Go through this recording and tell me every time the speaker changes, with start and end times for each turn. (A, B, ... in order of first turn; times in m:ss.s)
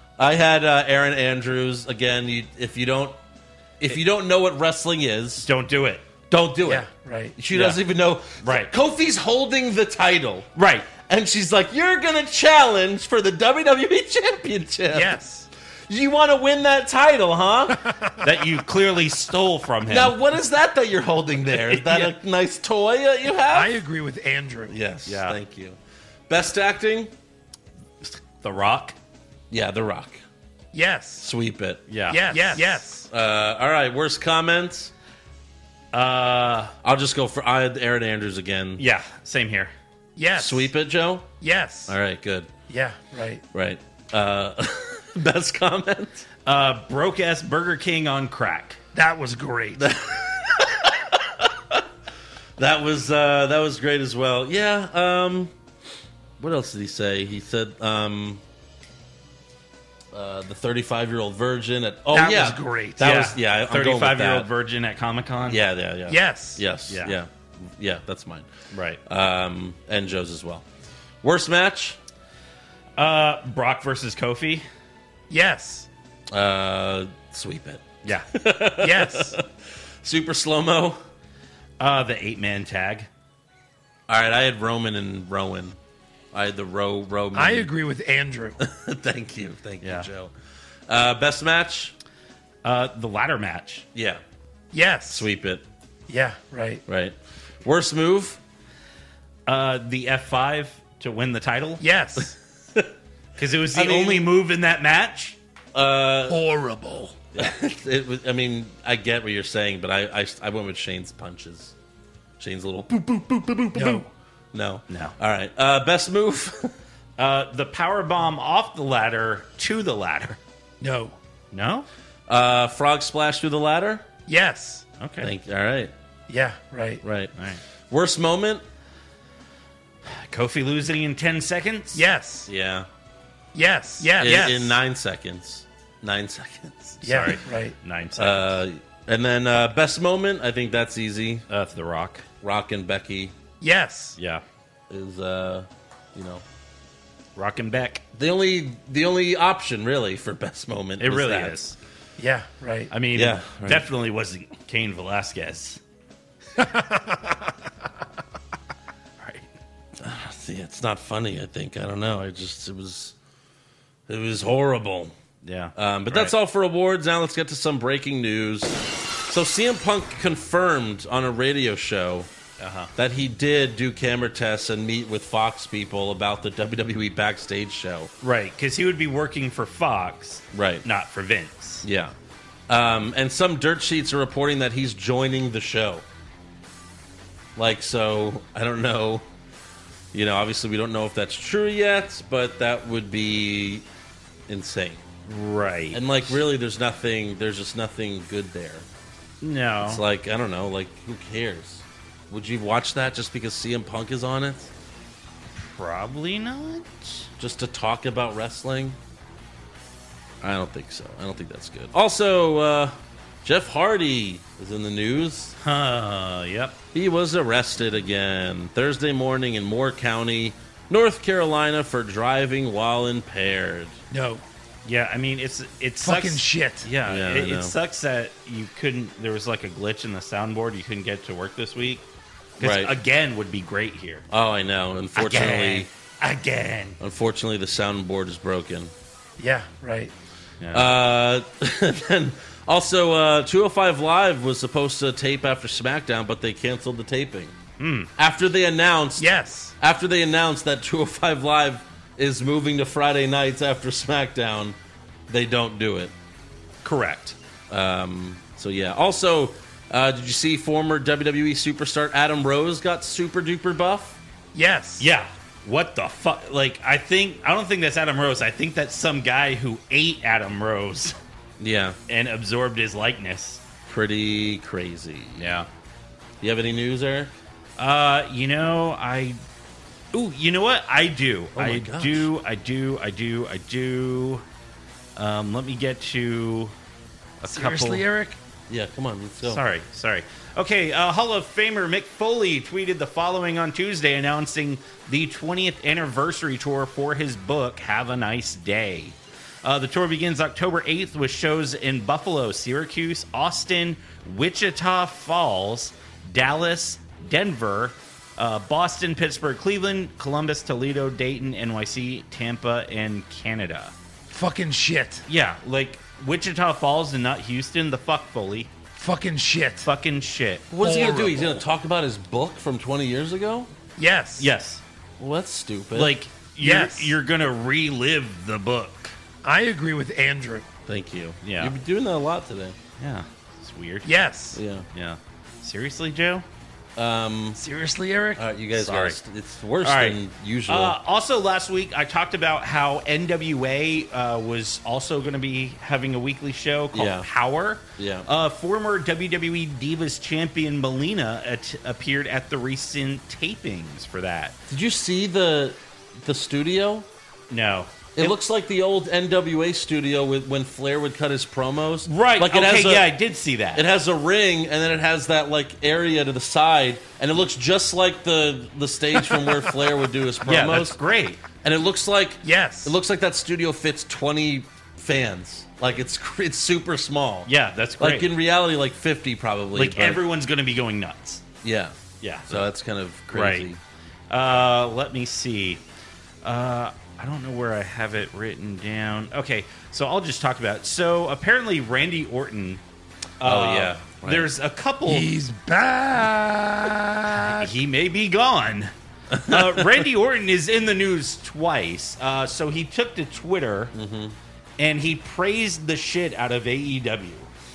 0:00.2-0:03.2 A
0:03.8-0:05.5 A
0:05.4-0:06.0 B
0:06.3-0:10.5 A
0:06.7-0:07.4 C
0:07.5-0:07.8 B
0:08.4-0:08.7 B
0:10.6-0:10.9 B
0:11.0-0:15.2 A
0:14.9-0:15.5 C
0:15.9-0:17.9 A
0:17.8-0:18.2 C
0:18.2-0:20.2 B
0:19.9-0:23.8 A
0:21.8-0:22.1 B
0:23.5-0:24.8 C
0:24.7-0:25.8 A
0:25.1-0:25.4 B
0:26.3-0:27.1 A
0:28.0-0:29.0 B
0:29.5-0:30.2 A
0:30.7-0:31.3 C
0:31.2-0:31.8 A
0:31.9-0:32.7 B
0:32.1-0:33.1 C
0:32.5-0:34.9 A
0:35.9-0:36.7 B
0:36.8-0:38.8 A
0:38.8-0:39.7 B
0:40.2-0:40.7 C
0:40.4-0:41.3 A
0:41.4-0:42.0 C
0:41.9-0:42.5 A
0:42.7-0:43.4 C
0:43.5-0:46.3 A
0:46.5-0:48.8 B
0:48.9-0:49.9 C
0:49.8-0:51.5 A
0:52.6-0:55.5 A
0:56.4-0:58.4 A
1:00.1-1:04.5 A
1:02.1-1:03.0 C
1:03.0-1:05.6 B
1:05.5-1:08.5 A
1:06.1-1:06.6 C
1:06.9-1:07.2 B
1:08.7-1:09.0 B
1:09.1-1:10.6 A
1:11.2-1:12.0 A
1:13.0-1:14.6 B
1:15.3-1:15.9 C
1:16.3-1:19.4 A
1:18.8-1:19.4 C
1:20.0-1:21.0 A
1:21.8-1:23.1 B
1:24.1-1:25.8 A
1:26.3-1:27.7 A
1:27.3-1:28.6 C
1:28.6-1:30.3 A
1:29.8-1:30.1 B
1:30.9-1:31.9 A
1:32.6-1:33.8 B
1:34.0-1:34.2 A
1:34.7-1:35.3 C
1:35.1-1:35.6 A
1:36.1-1:36.8 C
1:36.9-1:38.4 A
1:39.5-1:41.8 B
1:41.8-1:42.4 C
1:43.4-1:45.4 B
1:43.7-1:44.3 A
1:45.7-1:46.4 A
1:46.3-1:47.2 C
1:47.4-1:51.7 A
1:52.4-1:56.7 A
1:53.8-1:54.1 C
1:54.9-1:55.2 B
1:57.2-2:00.4 B
2:00.8-2:01.2 C
2:01.5-2:01.9 B
2:02.3-2:04.0 A
2:04.3-2:04.8 C
2:05.0-2:05.3 B
2:05.2-2:05.9 A
2:06.3-2:07.0 C
2:07.0-2:07.3 A
2:07.9-2:08.6 A
2:10.1-2:12.0 B
2:11.9-2:12.5 C
2:12.5-2:12.9 A
2:13.5-2:14.8 C
2:14.1-2:17.3 A
2:17.0-2:17.8 C
2:17.1-2:18.6 B
2:18.2-2:21.4 A
2:21.5-2:22.3 B
2:22.4-2:23.3 A
2:23.6-2:24.2 C
2:24.2-2:24.4 B
2:24.9-2:26.4 A
2:27.4-2:28.0 B
2:28.2-2:31.6 A
2:31.0-2:31.8 B
2:32.2-2:32.9 C
2:32.9-2:35.8 B
2:33.1-2:33.9 A
2:36.6-2:37.0 C
2:39.2-2:39.5 B
2:40.0-2:43.1 A
2:44.1-2:45.1 A
2:45.4-2:46.3 B
2:45.8-2:52.3 A
2:52.6-2:52.9 B
2:53.0-2:58.1 A
2:58.2-3:01.8 B
3:00.5-3:00.8 A
3:01.8-3:02.1 A
3:02.7-3:06.0 A
3:07.6-3:09.2 A
3:10.1-3:13.8 A
3:14.5-3:15.0 A
3:15.3-3:16.4 B
3:15.9-3:18.9 A
3:19.4-3:20.0 B
3:19.8-3:24.7 A
3:25.5-3:27.3 B
3:27.4-3:29.0 A
3:30.4-3:35.5 A
3:35.6-3:36.8 B
3:36.9-3:44.0 A
3:44.1-3:44.4 C
3:44.8-3:52.0 B
3:46.0-3:46.9 C
3:47.0-3:47.8 A
3:52.6-3:54.2 B
3:52.6-3:52.9 A
3:54.3-3:55.9 A
3:55.2-3:57.0 B
3:57.0-3:58.9 A
3:59.4-4:00.1 C
4:00.6-4:00.9 B
4:00.7-4:07.6 A
4:07.8-4:08.1 B
4:08.2-4:14.8 A
4:09.2-4:09.7 C
4:15.3-4:16.1 A
4:16.8-4:17.4 B
4:17.7-4:24.2 A
4:24.5-4:25.1 C
4:25.0-4:31.2 B
4:31.6-4:32.0 A
4:32.1-4:33.6 B
4:33.9-4:35.6 A
4:35.4-4:35.7 B
4:36.4-4:37.3 A
4:37.8-4:39.4 B
4:40.1-4:44.4 B
4:41.6-4:42.3 A
4:45.2-4:46.7 B
4:47.4-4:48.1 B
4:47.5-4:48.4 C
4:48.7-4:49.6 A
4:49.4-5:13.9 B
5:14.3-5:15.2 C
5:15.3-5:18.7 B
5:19.0-5:19.9 C
5:19.8-5:20.7 B
5:20.7-5:23.7 A
5:20.8-5:21.6 C
5:24.0-5:24.5 C
5:24.4-5:24.8 B
5:25.2-5:26.1 A
5:25.9-5:29.2 B
5:26.6-5:27.2 C
5:29.4-5:30.7 C
5:30.9-5:32.8 A
5:31.4-5:31.7 B
5:33.0-5:34.1 B
5:34.0-5:34.6 C
5:34.6-5:34.9 A
5:34.9-5:36.4 B
5:37.0-5:37.6 A
5:37.6-5:38.4 C
5:38.4-5:41.0 A
5:38.8-5:39.2 B
5:39.8-5:40.2 B
5:40.7-5:54.6 B
5:46.9-5:47.3 A
5:48.0-5:48.3 A
5:54.7-5:57.1 A
5:57.5-5:58.4 B
5:58.2-6:03.1 A
6:02.1-6:03.8 B
6:03.7-6:11.0 A
6:10.4-6:11.4 B
6:11.6-6:20.2 A
6:12.4-6:13.0 C
6:17.5-6:18.3 B
6:19.8-6:21.4 B
6:21.6-6:22.0 A
6:22.2-6:22.6 B
6:22.5-6:23.8 A
6:23.3-6:23.7 B
6:24.3-6:25.8 B
6:26.4-6:32.8 B
6:33.4-6:35.3 B
6:33.4-6:34.5 A
6:35.1-6:37.7 C
6:37.4-6:38.9 B
6:39.3-6:39.9 A
6:39.5-6:43.9 B
6:43.9-6:44.4 A
6:44.8-6:47.5 B